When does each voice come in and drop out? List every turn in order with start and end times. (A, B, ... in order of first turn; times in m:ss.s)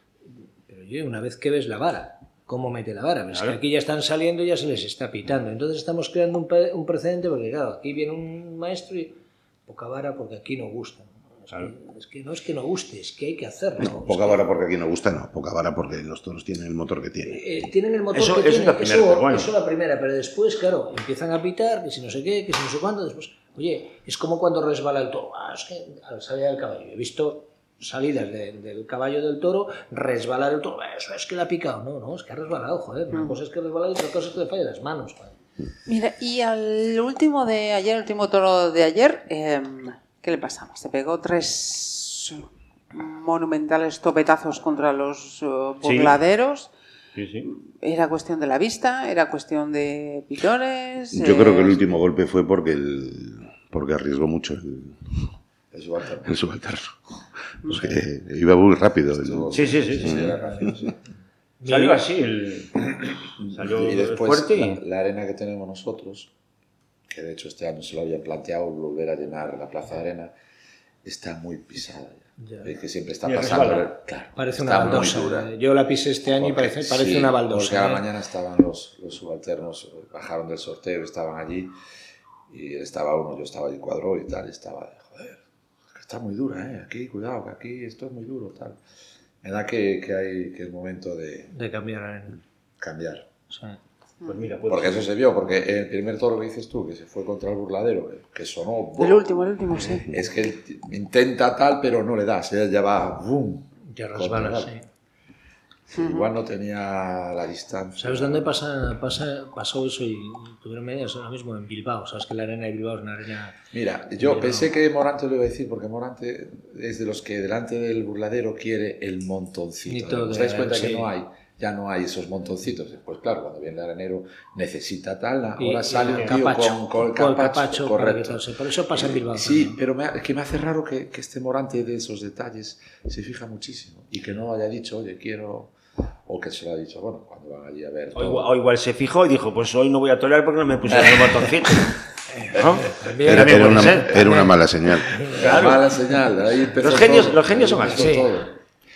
0:00.7-0:14.4 A
0:03.3-0:03.6 B
0:13.8-0:17.4 C
0:17.2-0:35.4 A
0:18.1-0:19.5 B
0:33.1-0:33.4 D
0:35.9-0:46.7 D
0:45.8-0:46.2 B
0:47.2-0:47.5 B
0:47.4-0:51.9 D
0:51.1-0:55.3 C
0:55.7-0:56.3 E
0:56.3-0:57.0 C
0:57.6-1:00.4 C
0:57.6-0:58.0 D
0:59.1-1:00.9 E
0:59.5-1:00.3 B
1:01.6-1:02.0 A
1:01.6-1:02.9 B
1:03.4-1:04.8 B
1:03.5-1:06.3 E
1:07.1-1:10.3 E
1:11.0-1:15.6 E
1:12.4-1:12.7 A
1:13.2-1:13.9 B
1:14.4-1:18.0 A
1:16.4-1:21.7 E
1:22.5-1:28.8 E
1:29.4-1:31.5 E
1:31.5-1:32.4 A
1:32.8-1:33.3 E
1:33.5-1:33.8 A
1:34.2-1:35.2 B
1:34.7-1:39.2 E
1:39.0-1:40.1 D
1:40.1-1:44.7 E
1:43.9-1:44.8 A
1:45.9-1:48.6 E
1:46.0-1:46.3 D
1:48.0-1:53.6 A
1:53.7-2:08.4 E
1:54.2-1:54.7 A
1:59.9-2:01.1 A
2:05.6-2:09.8 A
2:08.9-2:15.7 E
2:16.2-2:18.5 E
2:18.2-2:24.1 B
2:20.9-2:21.5 E
2:22.3-2:24.5 A
2:23.2-2:25.3 C
2:25.0-2:25.4 A
2:25.2-2:25.9 B
2:25.3-2:28.5 E
2:26.8-2:28.5 B
2:27.9-2:28.3 A